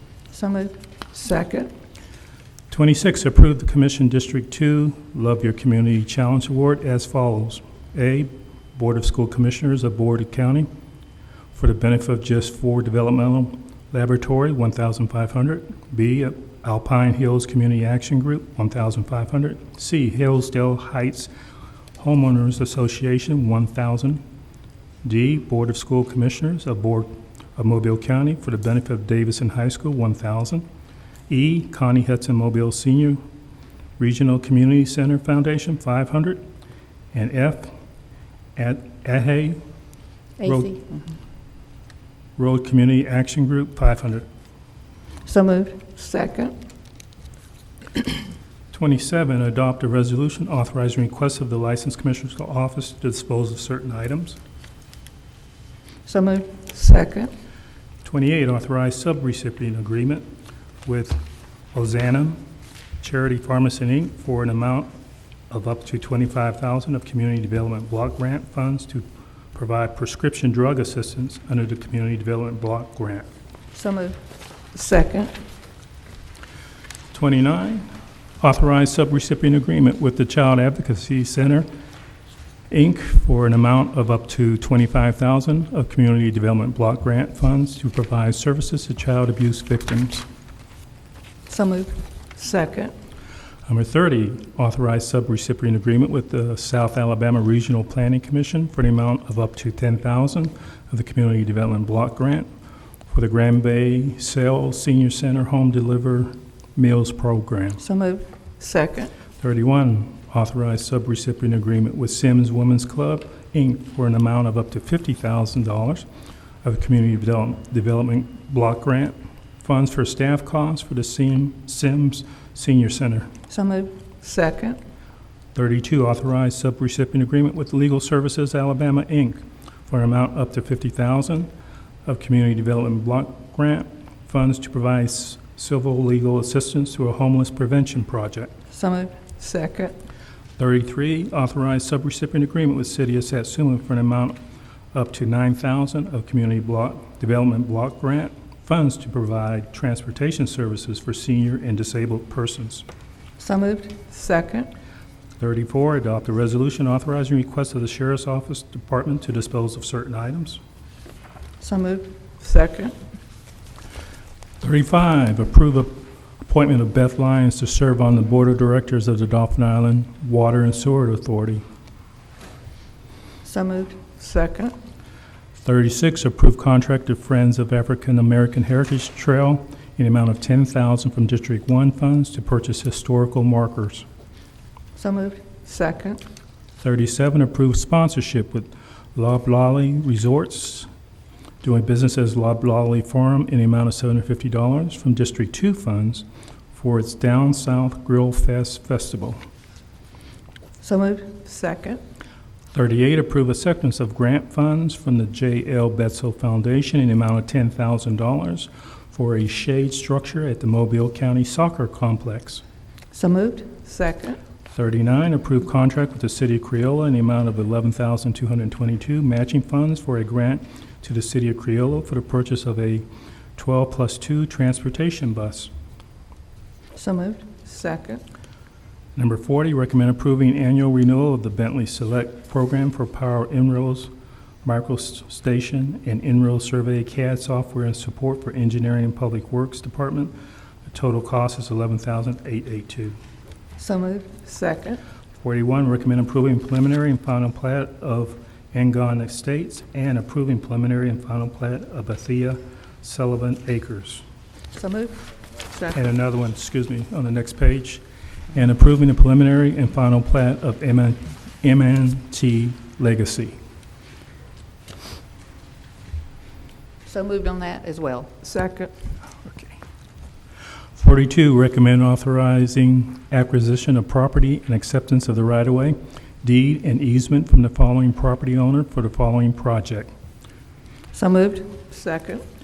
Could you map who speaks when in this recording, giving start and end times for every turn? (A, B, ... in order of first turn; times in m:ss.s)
0:00.3-0:00.7 A
0:01.1-0:01.7 B
0:02.7-0:10.7 C
0:11.5-0:21.3 C
0:22.0-0:24.2 C
0:25.0-0:30.6 C
0:31.3-0:33.2 C
0:34.0-0:36.4 C
0:37.1-0:37.7 C
0:38.6-0:39.6 C
0:40.4-0:40.8 A
0:40.4-0:40.8 C
0:42.4-0:44.2 C
0:45.2-0:45.8 A
0:46.0-0:46.5 B
0:48.7-0:54.4 C
0:56.0-0:56.6 A
0:56.7-0:57.3 B
0:58.0-1:00.3 C
1:00.8-1:02.4 C
1:03.0-1:04.9 C
1:05.5-1:13.3 C
1:13.7-1:14.2 A
1:14.7-1:15.3 B
1:17.1-1:17.9 C
1:18.4-1:21.7 C
1:22.7-1:30.2 C
1:31.5-1:32.0 A
1:32.4-1:32.9 B
1:33.6-1:42.5 C
1:43.1-1:47.8 C
1:47.8-1:48.2 A
1:48.6-1:49.1 B
1:49.4-1:56.0 C
1:56.6-2:03.3 C
2:03.5-2:03.9 A
2:04.2-2:04.8 B
2:05.5-2:11.5 C
2:12.0-2:18.5 C
2:18.7-2:19.1 A
2:19.4-2:20.0 B
2:20.6-2:24.4 C
2:24.9-2:32.8 C
2:33.4-2:34.0 A
2:34.1-2:34.7 B
2:35.4-2:40.6 C
2:41.6-2:42.1 A
2:42.4-2:43.0 B
2:44.6-2:51.6 C
2:53.4-2:54.0 A
2:54.2-2:54.7 B
2:55.6-3:04.1 C
3:05.0-3:05.5 A
3:05.6-3:06.2 B
3:06.8-3:10.9 C
3:11.6-3:19.4 C
3:20.8-3:21.4 A
3:21.4-3:22.0 B
3:22.7-3:32.6 C
3:33.1-3:33.8 A
3:33.8-3:34.4 B
3:34.7-3:45.7 C
3:46.9-3:47.5 A
3:47.6-3:48.2 B
3:49.1-3:54.1 C
3:54.6-4:00.3 C
4:00.9-4:03.2 C
4:03.8-4:04.3 A
4:04.4-4:05.0 B
4:05.4-4:14.2 C
4:14.7-4:15.2 A
4:15.9-4:23.6 C
4:27.0-4:28.3 A
4:28.4-4:28.9 B
4:29.4-4:29.7 C
4:31.0-4:40.1 C
4:41.1-4:41.8 A
4:41.9-4:42.4 B